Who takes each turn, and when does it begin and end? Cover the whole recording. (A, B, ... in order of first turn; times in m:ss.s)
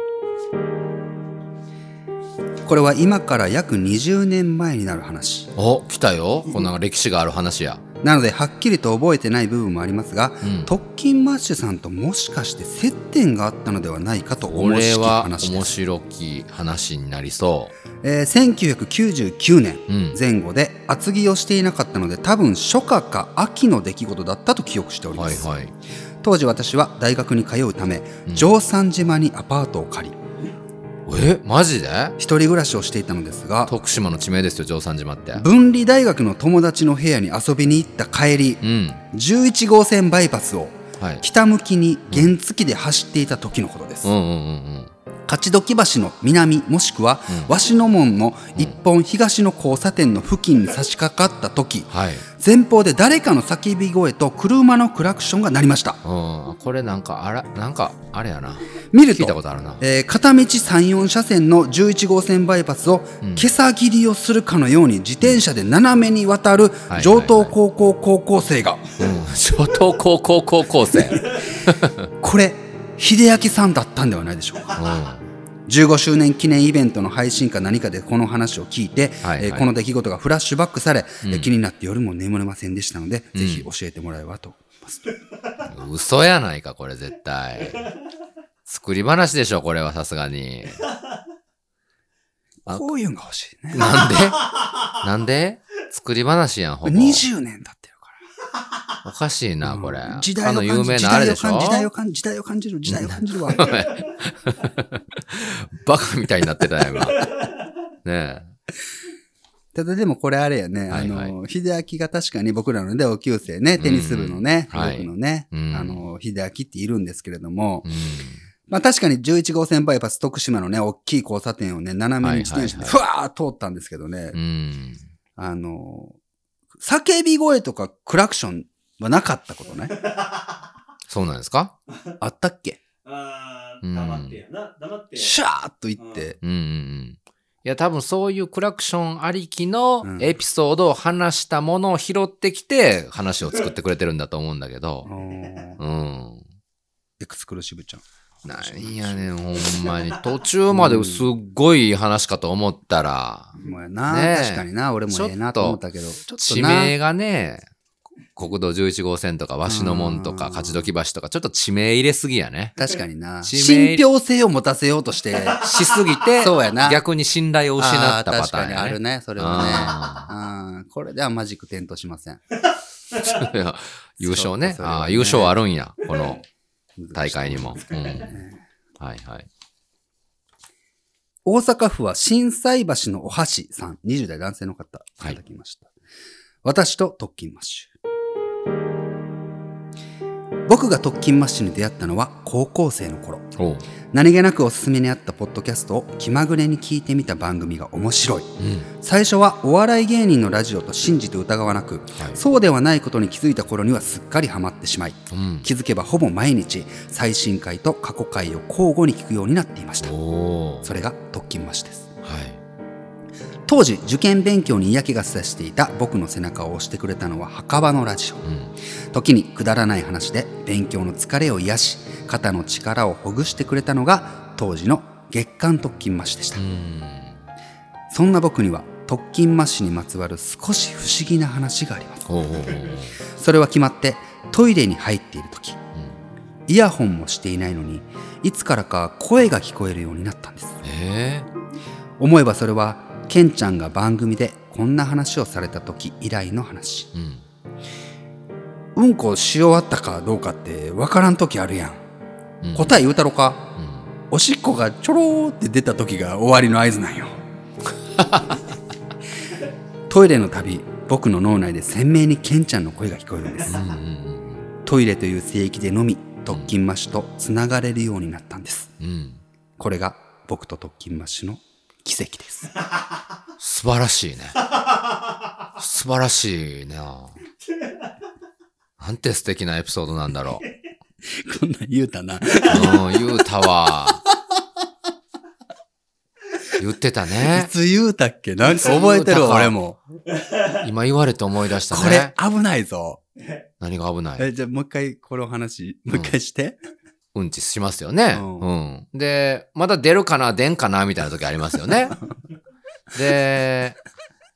0:02.6-0:05.5 A
0:05.6-0:07.8 B
0:08.0-0:15.8 A
0:10.4-0:10.7 B
0:14.5-0:17.7 B
0:18.0-0:25.5 A
0:19.9-0:20.2 B
0:25.1-0:25.7 B
0:26.2-0:30.2 A
0:31.1-0:32.2 B
0:32.2-0:33.7 A
0:33.7-0:35.4 B
0:35.3-0:44.1 A
0:38.6-0:39.0 B
0:41.0-0:41.2 B
0:44.0-0:44.9 B
0:45.3-0:56.0 A
0:51.9-0:52.2 B
0:56.0-0:59.8 B
0:58.9-1:09.0 A
1:03.2-1:03.5 B
1:06.9-1:07.5 B
1:09.0-1:12.1 B
1:12.2-1:14.7 A
1:14.7-1:15.2 B
1:15.7-1:25.1 A
1:19.2-1:19.6 B
1:21.2-1:21.5 B
1:23.3-1:23.7 B
1:25.6-1:27.9 B
1:28.7-1:30.8 B
1:32.6-1:33.9 A
1:33.7-1:37.2 B
1:36.8-1:38.1 A
1:39.0-1:41.9 B
1:39.6-1:43.8 A
1:42.9-1:47.3 B
1:48.0-1:48.5 B
1:49.7-1:57.9 A
1:50.9-1:51.3 B
1:53.8-1:56.0 B
1:57.8-1:58.4 B
1:58.7-2:04.4 A
2:02.2-2:03.0 B
2:04.3-2:05.0 B
2:05.4-2:06.2 A
2:06.8-2:10.0 A
2:10.0-2:10.5 C
2:11.1-2:11.7 B
2:12.2-2:12.8 A
2:13.0-2:15.3 C
2:13.8-2:14.4 B
2:15.2-2:16.4 A
2:16.4-2:25.1 B
2:20.0-2:20.3 A
2:25.0-2:25.8 A
2:25.8-2:26.4 B
2:27.2-2:28.0 A
2:28.4-2:33.6 B
2:28.6-2:29.3 A
2:30.7-2:31.3 A
2:33.6-2:36.9 A
2:34.1-2:35.8 B
2:36.4-2:37.7 B
2:38.4-2:42.8 B
2:39.6-2:40.9 A
2:42.8-2:45.7 A
2:43.4-2:44.0 B
2:45.5-2:50.3 B
2:46.2-2:47.0 A
2:47.8-2:52.4 A
2:53.1-2:56.4 B
2:54.2-2:55.6 A
2:57.0-2:58.6 A
2:57.1-2:58.4 B
2:59.0-2:59.5 B
3:01.4-3:05.9 A
3:06.6-3:07.9 A
3:10.6-3:13.5 A
3:13.6-3:13.8 B
3:14.1-3:30.1 A
3:18.6-3:18.9 B
3:22.2-3:22.4 B
3:25.3-3:25.7 B
3:30.0-3:30.9 B
3:30.8-3:32.1 A
3:32.2-3:32.6 B
3:33.6-3:38.4 A
3:38.4-3:38.7 B
3:39.1-3:46.6 A
3:46.6-3:47.4 B
3:48.1-3:52.4 A
3:52.3-3:53.2 B
3:53.3-3:55.8 A
3:56.7-4:00.8 A
4:00.8-4:01.5 B
4:02.2-4:07.1 A
4:07.1-4:07.4 B
4:09.0-4:12.0 A
4:12.6-4:13.0 B
4:12.7-4:13.7 A
4:13.8-4:14.1 B
4:14.3-4:17.4 A
4:18.2-4:18.6 B
4:20.1-4:23.9 A
4:23.6-4:24.7 B
4:24.8-4:28.9 A
4:26.5-4:26.8 B
4:29.0-4:29.4 B
4:29.8-4:32.7 A
4:33.6-4:34.7 B
4:35.8-4:37.4 B
4:39.0-4:40.6 B
4:41.2-4:43.4 A
4:42.7-4:44.2 B
4:46.8-4:47.7 B
4:47.4-4:50.0 A
4:48.7-4:49.7 B
4:50.7-4:52.3 B
4:51.9-4:53.2 A
4:53.8-4:54.5 B
4:54.4-4:56.8 A
4:56.1-4:56.3 B
4:57.3-5:02.2 B
4:58.3-4:58.7 A
5:03.1-5:04.0 B